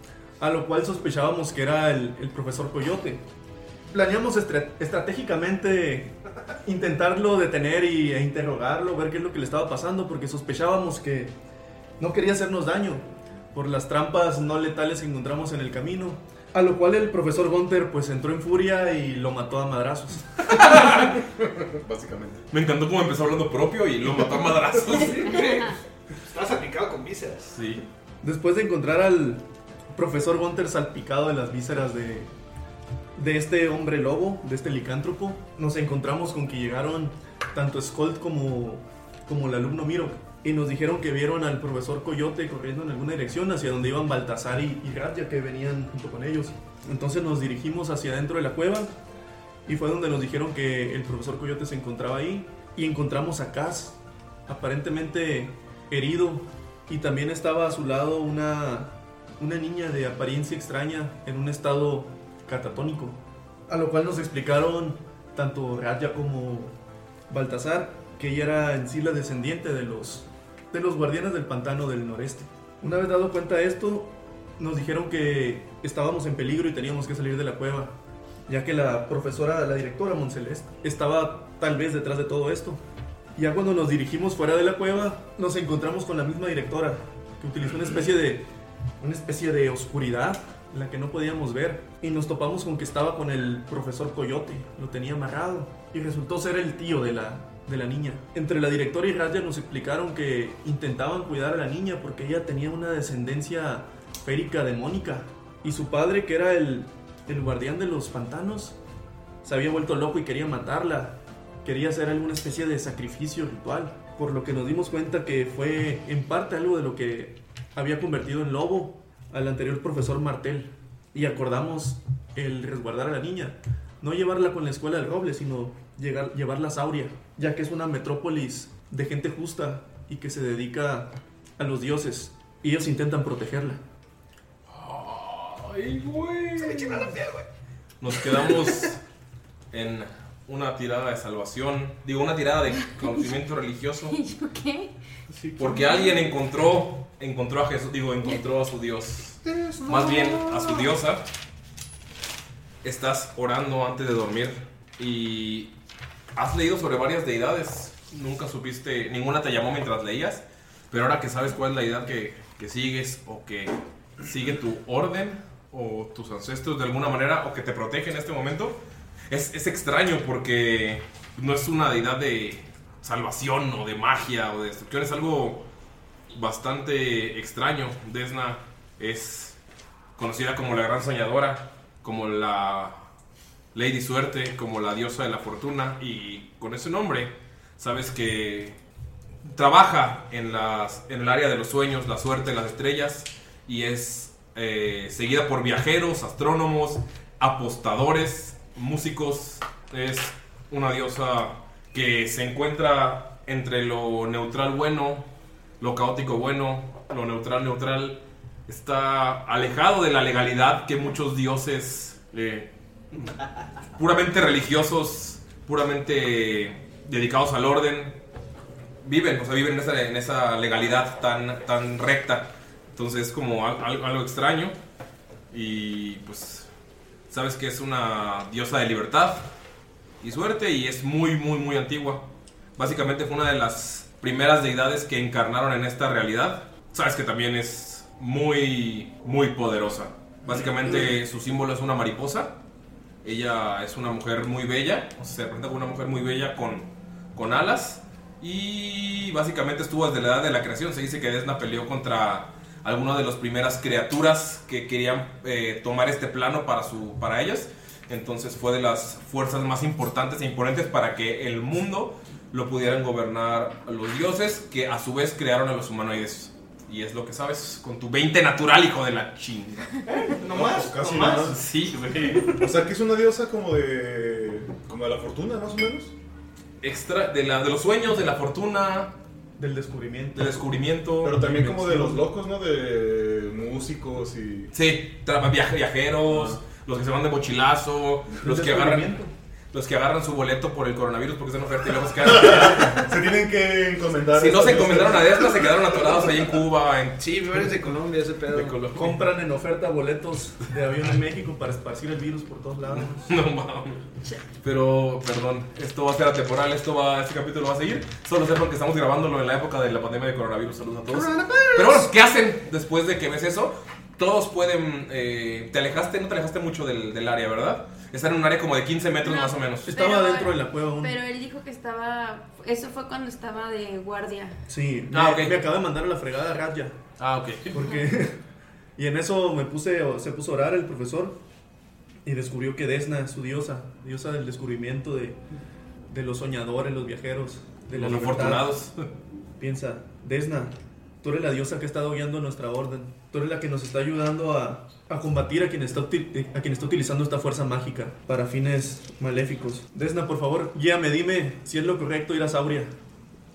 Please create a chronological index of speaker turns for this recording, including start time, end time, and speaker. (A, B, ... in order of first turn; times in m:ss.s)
0:00.4-0:03.2 A
0:03.9-0:06.1 A
0:06.6-0:11.3 A
0:12.0-0:20.4 A
0:20.6-0:21.1 B
0:20.7-0:22.4 C
0:22.5-0:25.4 B
0:24.9-0:27.5 D
0:27.5-0:27.8 B
0:28.2-0:29.4 A
0:29.9-0:32.3 A
0:33.2-0:48.9 A
0:49.6-0:54.0 A
0:54.5-1:06.7 A
1:07.3-1:17.9 A
1:18.5-1:22.8 A
1:23.4-1:28.5 A
1:29.0-1:48.8 A
1:49.4-2:13.8 A
2:14.7-2:17.1 B
2:16.6-2:17.4 D
2:18.0-2:19.0 B
2:19.7-2:24.2 B
2:24.1-2:24.9 E
2:25.3-2:25.8 D
2:25.6-2:31.2 B
2:25.8-2:26.1 E
2:29.4-2:30.9 D
2:32.8-2:35.7 B
2:36.3-2:48.8 B
2:49.3-2:55.6 B
2:56.3-2:59.6 B
3:00.2-3:03.0 B
3:03.7-3:08.8 B
3:09.4-3:25.2 B
3:25.8-3:32.7 B
3:34.0-3:38.2 B
3:39.0-3:44.7 B
3:45.5-3:46.7 B
3:47.3-3:49.5 B
3:50.2-3:52.2 B
3:52.8-4:02.6 B
4:03.2-4:29.9 B
4:30.0-4:31.6 D
4:30.5-4:31.6 C
4:31.4-4:32.5 B
4:32.6-4:36.1 C
4:36.8-4:39.1 B
4:39.6-4:40.6 A
4:40.3-4:41.7 B
4:41.2-4:44.7 C
4:41.6-4:42.2 A
4:44.7-4:49.2 B
4:46.3-4:46.6 C
4:48.4-4:49.3 A
4:49.7-4:53.0 B
4:52.2-4:55.7 C
4:54.3-4:57.2 B
4:57.2-4:58.8 D
4:58.5-4:59.2 B
4:58.9-5:03.3 A
5:02.9-5:04.0 B
5:04.6-5:19.9 B
5:11.1-5:12.1 D
5:19.2-5:24.6 E
5:19.8-5:21.2 A
5:24.7-5:27.0 A
5:25.1-5:25.6 B
5:27.2-5:27.7 B
5:27.7-5:28.4 A
5:29.0-5:31.4 A
5:32.2-5:35.4 A
5:36.1-5:38.7 A
5:37.9-5:39.0 B
5:39.6-5:52.9 A